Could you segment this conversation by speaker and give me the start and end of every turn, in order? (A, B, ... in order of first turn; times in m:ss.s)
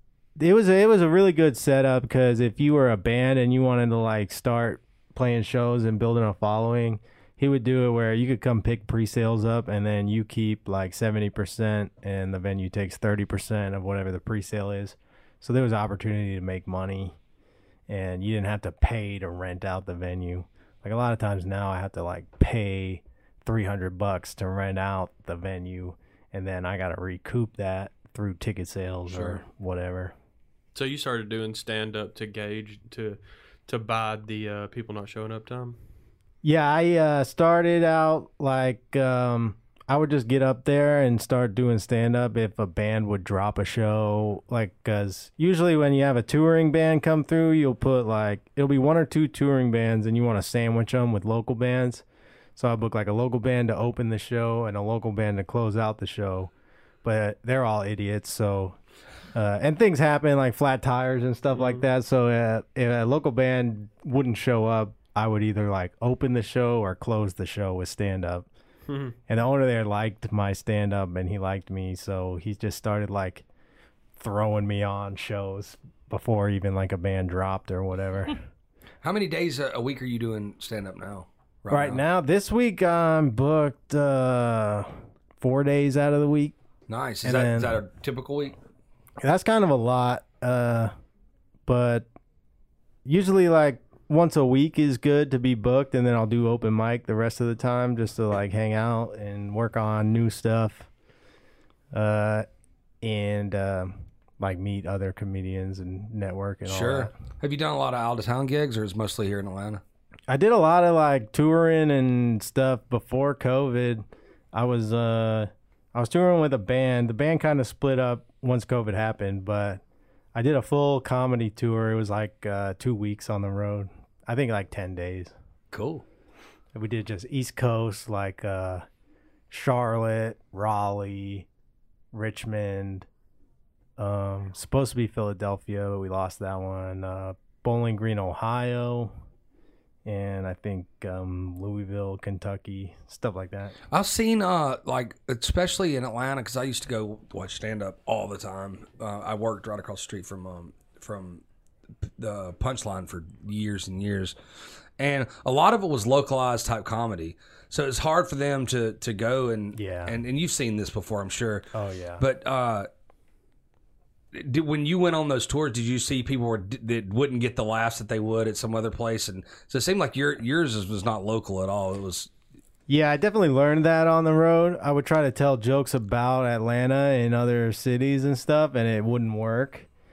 0:00.4-0:17.2 A
0:17.9-0:30.1 A
0:29.1-0:29.4 B
0:30.8-0:35.8 C
0:36.4-0:52.0 A
0:52.6-0:56.5 A
0:57.0-0:58.8 A
0:59.3-1:08.5 A
1:01.5-1:01.8 C
1:08.9-1:09.2 C
1:09.3-1:13.4 A
1:14.2-1:18.4 A
1:19.0-1:22.0 B
1:21.7-1:26.6 A
1:26.9-1:28.6 B
1:27.2-1:27.8 A
1:29.2-1:30.9 A
1:31.7-1:32.1 A
1:33.1-1:40.9 A
1:41.9-1:42.5 A
1:43.0-1:47.1 A
1:46.7-1:49.8 B
1:50.3-1:59.8 A
2:00.3-2:05.3 A
2:05.7-2:06.0 B
2:06.7-2:08.8 A
2:09.5-2:11.5 A
2:12.1-2:13.1 A
2:14.0-2:19.1 A
2:20.0-2:23.8 A
2:23.9-2:31.4 B
2:32.0-2:34.4 B
2:35.0-2:41.7 B
2:39.8-2:40.2 A
2:41.7-2:42.2 A
2:42.2-2:42.9 B
2:44.3-2:52.3 B
2:52.9-2:59.9 A